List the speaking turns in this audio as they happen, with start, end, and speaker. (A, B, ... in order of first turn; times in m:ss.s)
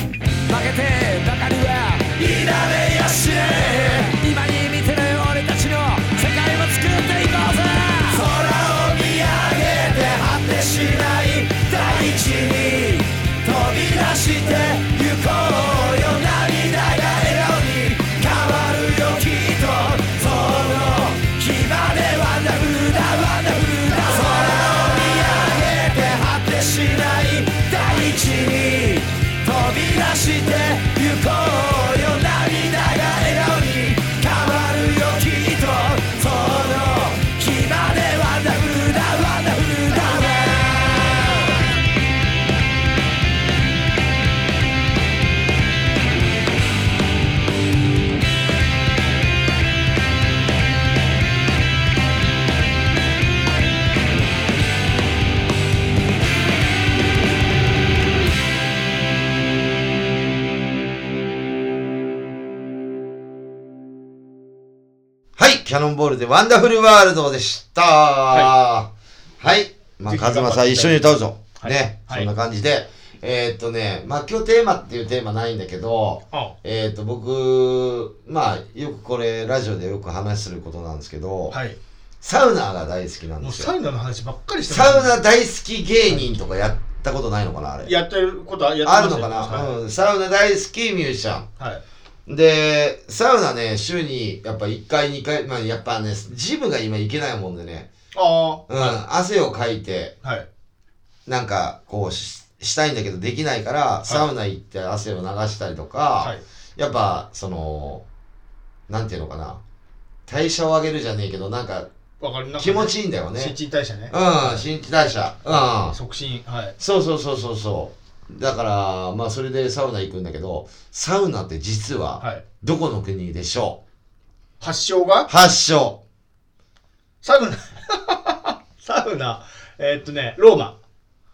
0:00.5-0:41.3 A
1:05.4-1:21.6 B
1:10.1-1:12.3 C
1:21.5-1:21.8 C
1:22.2-1:23.7 B
1:23.4-1:25.2 C
1:24.7-1:27.9 B
1:26.1-1:26.4 C
1:27.8-1:29.8 C
1:28.8-1:31.5 B
1:32.3-1:37.9 B
1:38.1-1:39.0 C
1:38.7-1:40.2 B
1:40.2-1:40.5 C
1:41.3-1:48.0 B
1:48.9-1:49.6 B
1:50.3-1:51.9 B
1:52.2-1:54.7 C
1:52.6-1:53.6 B
1:54.1-1:56.0 B
1:55.5-1:56.8 C
1:56.8-2:03.8 B
2:02.2-2:02.4 C
2:04.6-2:05.3 C
2:05.3-2:06.0 B
2:07.2-2:10.8 C